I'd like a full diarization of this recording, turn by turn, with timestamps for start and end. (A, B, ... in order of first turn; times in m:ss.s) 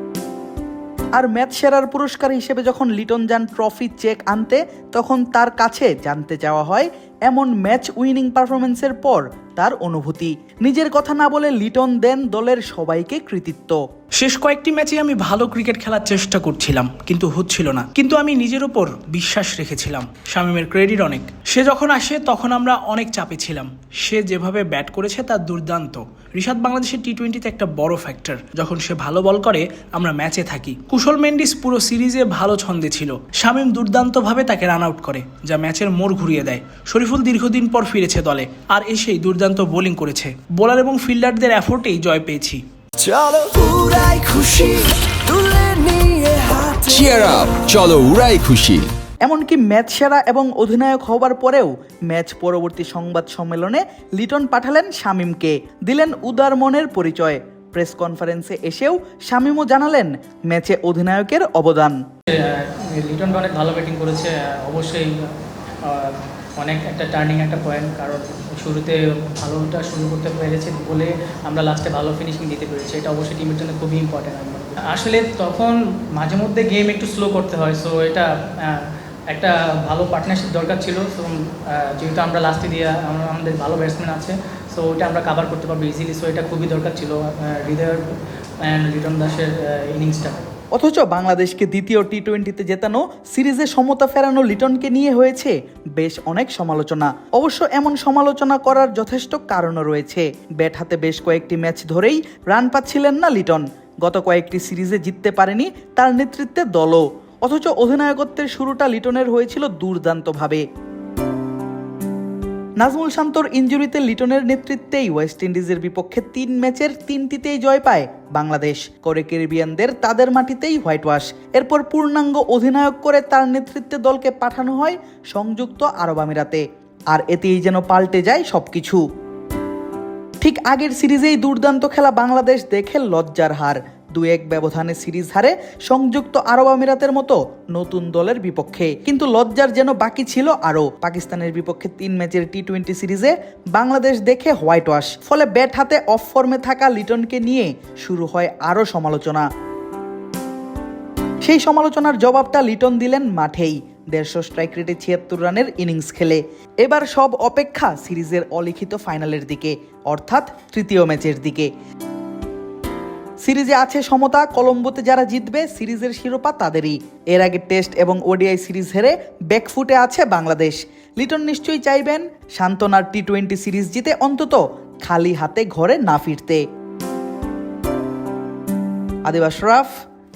0:01.2-0:13.8 A
0:14.2-0:42.6 B
0:43.1-0:46.9 C
0:44.5-0:44.8 B
0:46.8-0:48.9 D
0:49.2-1:02.0 A
1:02.3-1:05.3 E
1:05.8-1:28.0 E
1:28.6-1:30.4 E
1:30.7-1:50.6 A
1:52.8-2:09.0 A
2:10.4-2:29.4 A
2:31.4-2:41.7 A
2:43.4-2:56.6 A
2:59.2-2:59.9 A